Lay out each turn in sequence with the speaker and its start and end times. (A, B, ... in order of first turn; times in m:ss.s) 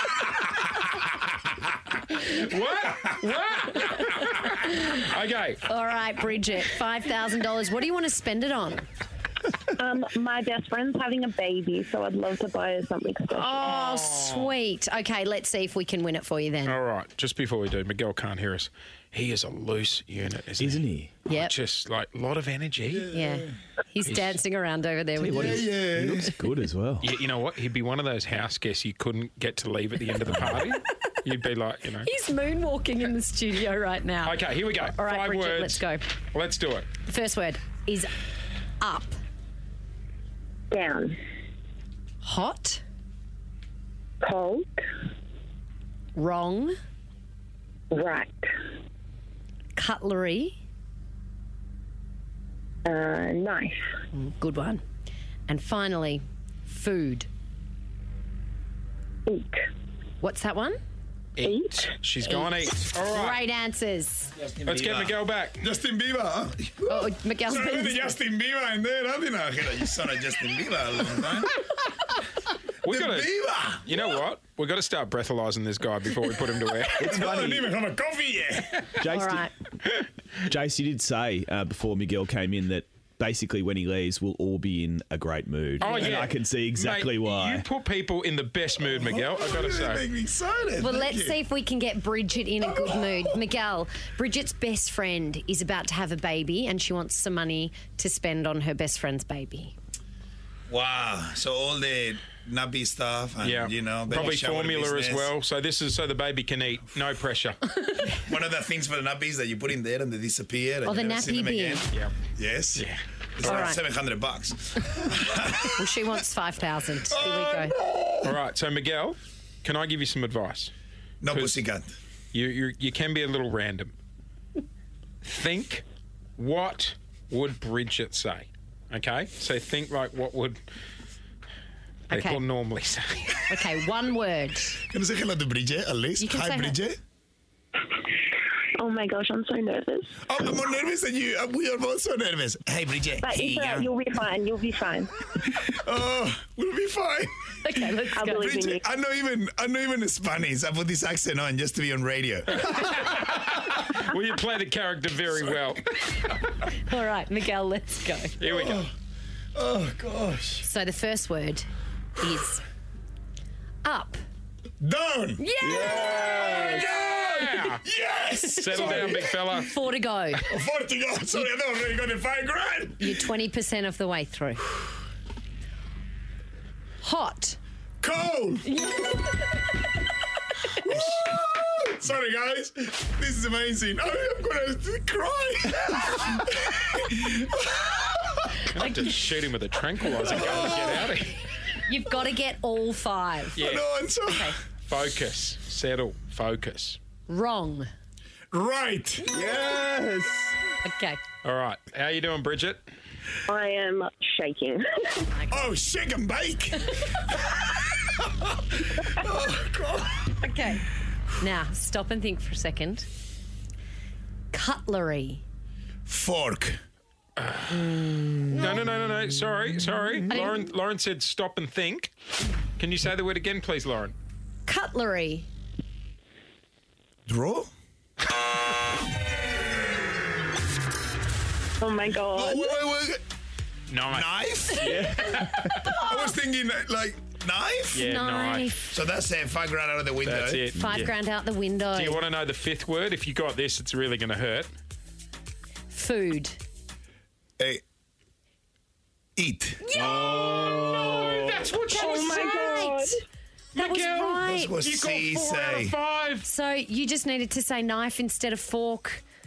0:02.1-0:05.6 A
0:05.7-0:08.8 B
0:09.8-0:13.6 C
0:13.4-0:16.8 B
0:13.6-0:14.5 A
0:16.6-0:23.1 A
0:20.6-0:21.1 D
0:21.3-0:21.5 B
0:23.0-0:23.5 E
0:23.1-0:25.7 B
0:24.0-0:24.4 A
0:25.2-0:27.1 D
0:25.3-0:26.3 E
0:27.0-0:32.1 A
0:32.0-0:36.0 B
0:34.2-0:36.9 A
0:37.1-0:38.1 B
0:38.8-0:39.2 B
0:40.7-0:41.2 C
0:42.2-0:42.8 B
0:44.2-0:44.8 C
0:46.2-0:46.7 B
0:47.9-0:48.5 C
0:49.8-0:50.6 B
0:52.8-0:53.8 C
0:54.1-0:54.8 B
0:55.5-0:57.3 B
0:59.3-0:59.6 C
1:00.2-1:00.8 B
1:01.4-1:03.4 A
1:01.4-1:01.9 C
1:03.1-1:04.3 B
1:04.4-1:11.6 E
1:04.6-1:05.6 A
1:06.9-1:08.2 B
1:12.8-1:17.1 A
1:12.8-1:13.9 E
1:17.0-1:18.8 E
1:17.0-1:17.7 D
1:19.0-1:19.5 D
1:19.0-1:19.5 B
1:20.4-1:27.6 D
1:25.8-1:30.0 A
1:28.9-1:31.4 E
1:30.8-1:39.7 B
1:32.6-1:33.3 E
1:40.7-1:45.3 E
1:43.4-1:47.6 A
1:48.1-1:55.8 E
1:50.8-1:51.8 B
1:52.7-1:53.7 A
1:53.4-1:53.8 B
1:55.6-1:57.8 B
1:57.1-1:58.3 E
1:58.2-2:00.7 A
2:01.2-2:01.9 E
2:01.3-2:01.6 A
2:02.3-2:03.9 A
2:05.2-2:05.8 A
2:06.4-2:10.6 A
2:12.1-2:12.4 B
2:12.1-2:13.5 A
2:13.5-2:14.8 B
2:14.8-2:17.0 E
2:16.2-2:16.8 B
2:18.8-2:20.1 C
2:20.3-2:23.9 E
2:23.2-2:25.1 C
2:25.5-2:32.8 E
2:27.6-2:28.5 B
2:28.2-2:28.8 C
2:32.5-2:35.9 A
2:36.8-2:38.3 B
2:38.4-2:38.9 A
2:38.4-2:38.9 E
2:39.5-2:40.6 E
2:40.6-2:41.6 B
2:42.2-2:42.6 B
2:43.8-2:44.2 B
2:44.8-2:49.5 E
2:45.4-2:46.9 B
2:45.6-2:46.5 D
2:45.8-2:47.8 A
2:48.3-2:50.4 B
2:48.6-2:49.9 A
2:50.5-2:53.2 E
2:53.0-2:54.7 B
2:57.0-2:57.6 B
2:58.0-2:58.7 E
2:58.6-2:59.6 B
3:00.8-3:08.6 E
3:00.9-3:01.2 A
3:08.6-3:11.4 A
3:10.2-3:11.1 E
3:11.8-3:13.6 B
3:13.6-3:13.8 A
3:13.6-3:14.6 E
3:14.3-3:14.6 B
3:14.9-3:17.0 A
3:17.3-3:17.9 B
3:18.5-3:19.4 E
3:19.3-3:20.6 D
3:20.8-3:21.2 B
3:21.4-3:22.8 A
3:23.5-3:25.2 C
3:25.3-3:25.7 B
3:25.5-3:26.9 E
3:28.4-3:30.2 E
3:30.4-3:30.8 B
3:31.4-3:33.0 B
3:34.5-3:35.4 B
3:36.1-3:36.8 E
3:37.4-3:42.1 A
3:38.5-3:38.8 B
3:40.3-3:40.6 B
3:42.8-3:44.1 A
3:44.6-3:45.5 B
3:47.3-3:47.7 E
3:51.8-3:52.8 C
3:52.3-3:53.2 E
3:53.9-3:55.9 A
3:54.1-3:55.2 E
3:54.8-3:55.9 D
3:55.9-3:58.1 E
3:57.9-3:58.8 A
3:57.9-3:58.9 B
3:58.9-4:00.7 E
4:00.2-4:01.1 A
4:00.8-4:02.2 B
4:00.8-4:01.1 D
4:01.9-4:04.7 A
4:05.9-4:06.6 B
4:09.4-4:09.8 E
4:09.8-4:11.2 B
4:09.9-4:12.6 A
4:10.1-4:10.5 D
4:11.9-4:13.2 B
4:11.9-4:13.1 C
4:13.7-4:16.4 A
4:13.7-4:14.8 B
4:14.3-4:15.9 E
4:16.4-4:19.2 B